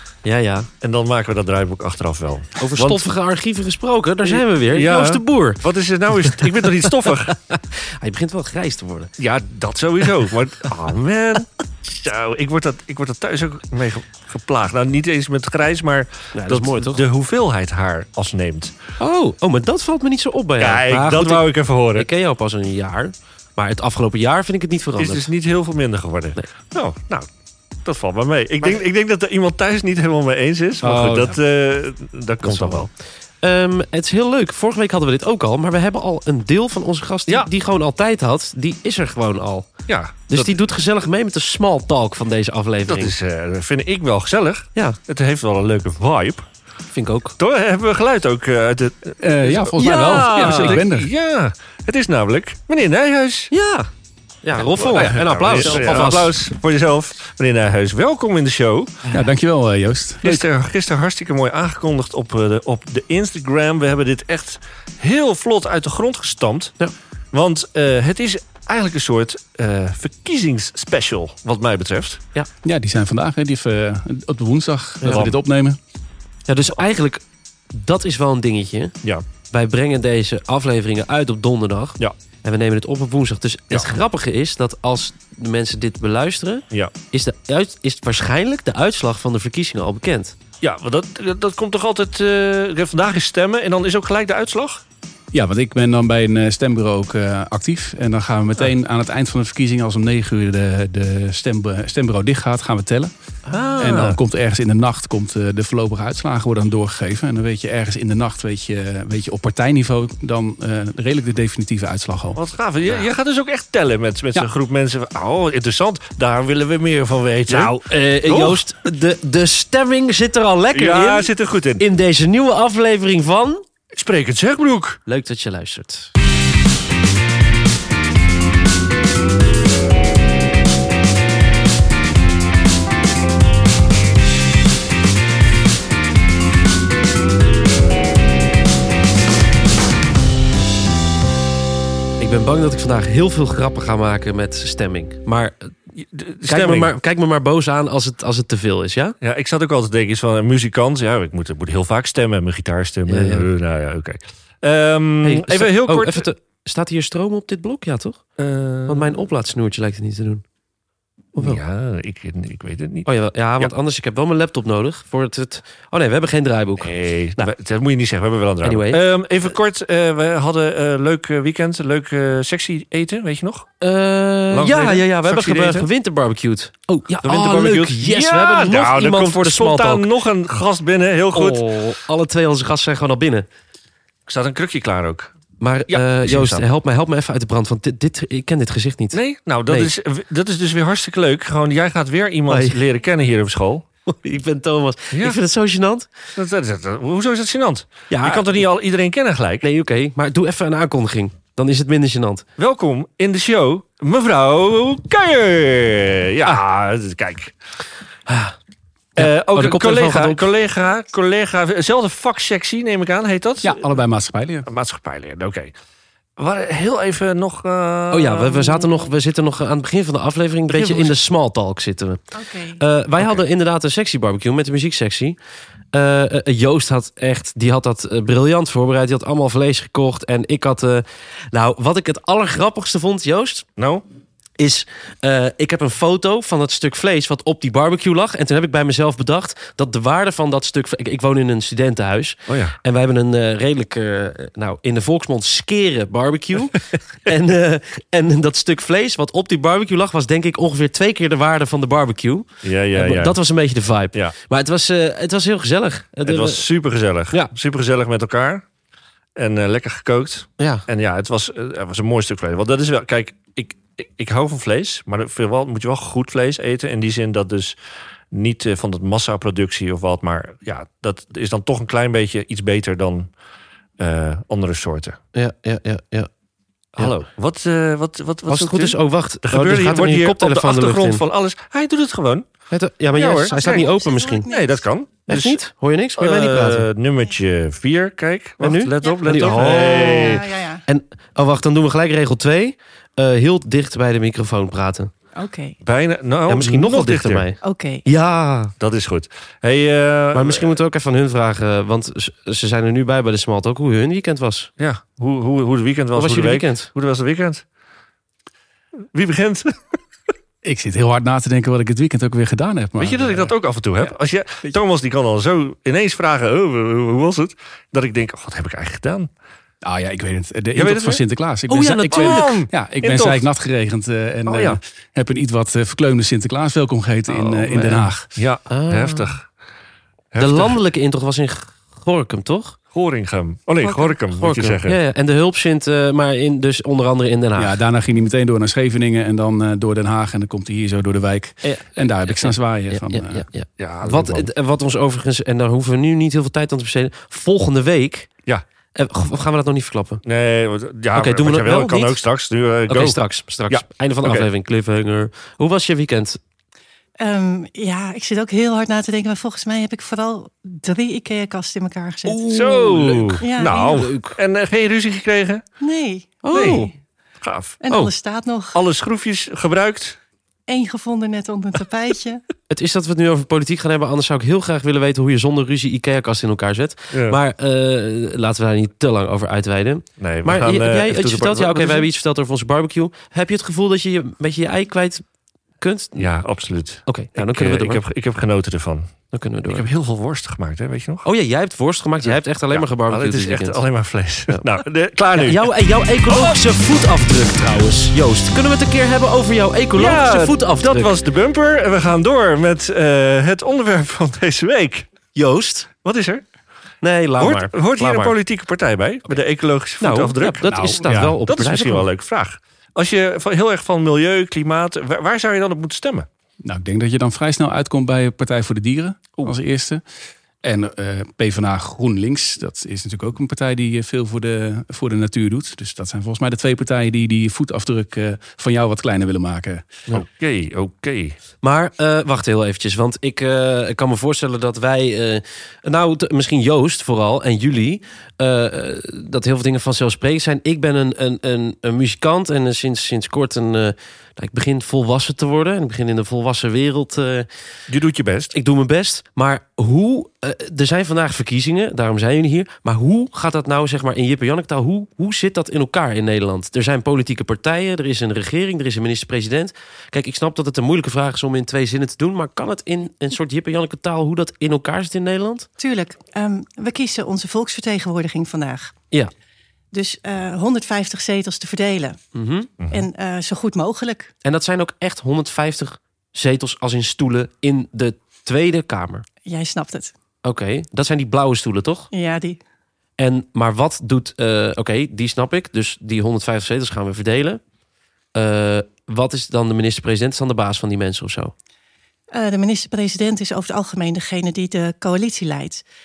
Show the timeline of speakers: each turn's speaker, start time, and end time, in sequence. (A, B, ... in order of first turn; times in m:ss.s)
0:00.2-0:00.7 A
0:00.8-0:03.0 B
0:02.6-0:05.6 A
0:04.2-0:07.4 B
0:07.3-0:09.1 A
0:09.2-0:18.7 B
0:16.3-0:17.0 A
0:19.0-0:21.4 A
0:20.6-0:22.1 B
0:21.9-0:25.3 A
0:25.0-0:27.3 B
0:27.8-0:32.9 B
0:30.8-0:31.3 A
0:30.9-0:31.3 C
0:32.4-0:32.9 A
0:33.4-0:39.7 A
0:39.9-0:40.5 B
0:40.3-0:43.1 A
0:42.9-0:46.4 B
0:46.9-0:47.4 A
0:47.4-0:53.5 B
0:49.2-0:51.1 C
0:49.8-0:50.8 A
0:53.5-0:53.9 A
0:54.4-0:56.3 A
0:54.8-0:59.0 B
0:55.1-0:56.2 C
0:59.1-1:00.4 C
1:00.2-1:06.8 B
1:07.3-1:12.2 B
1:12.6-1:15.8 C
1:15.0-1:15.3 A
1:16.5-1:19.0 A
1:19.5-1:30.3 A
1:30.6-1:34.8 B
1:35.3-1:43.1 C
1:43.5-1:44.0 A
1:43.8-1:52.4 C
1:43.8-1:44.2 B
1:52.4-1:58.6 B
1:57.5-2:03.6 A
2:00.7-2:01.8 B
2:03.9-2:05.0 B
2:05.1-2:06.1 A
2:22.2-2:25.7 A
2:26.1-2:26.9 B
2:26.4-2:29.1 A
2:29.2-2:36.2 B
2:33.1-2:33.5 A
2:35.2-2:38.2 A
2:38.4-2:39.1 B
2:38.9-2:40.4 A
2:41.4-2:41.6 A
2:41.4-2:43.1 B
2:43.0-2:47.5 A
2:46.8-2:53.7 B
2:48.6-2:49.0 A
2:53.8-3:00.1 A
2:54.5-2:55.9 B
2:57.2-3:01.7 B
3:01.3-3:03.5 A
3:04.3-3:05.3 B
3:05.6-3:09.9 A
3:05.9-3:06.6 B
3:09.1-3:13.9 B
3:12.5-3:12.8 A
3:14.0-3:16.1 A
3:15.1-3:15.4 B
3:16.4-3:19.6 B
3:18.1-3:18.6 A
3:19.6-3:22.4 A
3:22.6-3:27.5 B
3:28.3-3:28.6 A
3:29.2-3:33.8 B
3:29.2-3:30.4 A
3:33.6-3:34.7 C
3:34.6-3:35.7 B
3:36.4-3:38.9 B
3:38.1-3:42.2 A
3:40.7-3:41.1 B
3:42.3-3:42.8 D
3:42.8-3:45.4 A
3:45.9-3:53.6 A
3:53.8-3:54.0 B
3:54.6-4:16.7 A
4:02.5-4:02.8 B
4:12.6-4:13.4 B
4:16.2-4:18.6 B
4:19.4-4:27.7 B
4:20.6-4:20.8 A
4:28.3-4:33.3 B
4:34.0-4:35.2 B
4:35.3-4:36.3 A
4:37.0-4:42.5 B
4:38.5-4:41.2 A
4:42.7-4:44.5 A
4:43.1-4:43.9 B
4:43.2-4:44.8 D
4:44.5-4:45.6 B
4:45.3-4:46.9 A
4:46.2-4:50.4 B
4:48.6-4:55.1 A
4:49.0-4:50.8 D
4:55.3-4:55.8 D
4:55.8-4:57.4 B
4:56.5-4:58.7 A
4:57.6-4:58.0 D
4:58.8-5:00.7 B
5:00.3-5:04.7 A
5:04.8-5:07.6 B
5:06.1-5:06.9 A
5:09.1-5:10.0 B
5:10.6-5:14.1 C
5:13.0-5:19.3 B
5:19.8-5:28.3 C
5:20.7-5:21.2 B
5:21.7-5:22.6 A
5:22.1-5:23.4 B
5:24.4-5:24.8 B
5:27.3-5:29.4 B
5:28.7-5:29.4 A
5:30.3-5:30.8 B
5:30.4-5:32.8 A
5:32.9-5:35.0 B
5:33.8-5:37.8 A
5:37.5-5:43.4 C
5:41.6-5:48.3 A
5:43.8-5:44.5 B
5:48.9-5:50.2 A
5:50.2-5:54.5 B
5:51.1-5:52.2 A
5:52.9-5:56.4 A
5:57.2-6:02.4 D
6:02.2-6:04.4 A
6:02.5-6:05.6 B
6:03.4-6:04.1 D
6:05.8-6:06.9 D
6:06.4-6:06.9 A
6:06.5-6:06.8 B
6:07.4-6:07.8 B
6:07.8-6:08.8 D
6:08.7-6:10.2 B
6:10.7-6:12.4 D
6:12.7-6:25.2 A
6:17.1-6:17.4 B
6:20.2-6:22.1 B
6:25.8-6:26.3 A
6:26.2-6:29.1 B
6:27.0-6:28.0 A
6:29.3-6:29.8 A
6:29.7-6:31.2 B
6:31.2-6:33.8 A
6:32.7-6:35.7 B
6:35.4-6:41.2 A
6:36.2-6:36.6 B
6:40.0-6:45.1 B
6:45.3-6:45.9 A
6:46.0-6:46.4 B
6:47.0-6:48.3 A
6:47.4-6:56.3 B
6:50.0-6:52.0 A
6:50.7-6:51.4 C
6:56.6-7:00.0 C
7:00.6-7:09.9 C
7:10.1-7:11.4 B
7:11.6-7:27.5 A
7:27.9-7:28.5 B
7:28.5-7:45.7 A
7:45.8-7:48.9 D
7:49.9-7:52.2 D
7:52.3-7:52.7 A
7:52.8-7:53.0 B
7:52.9-7:54.3 D
7:54.4-7:59.2 A
7:59.4-8:00.1 D
8:00.4-8:02.1 A
8:02.1-8:02.6 D
8:03.2-8:07.6 A
8:08.3-8:11.5 A
8:12.3-8:15.8 D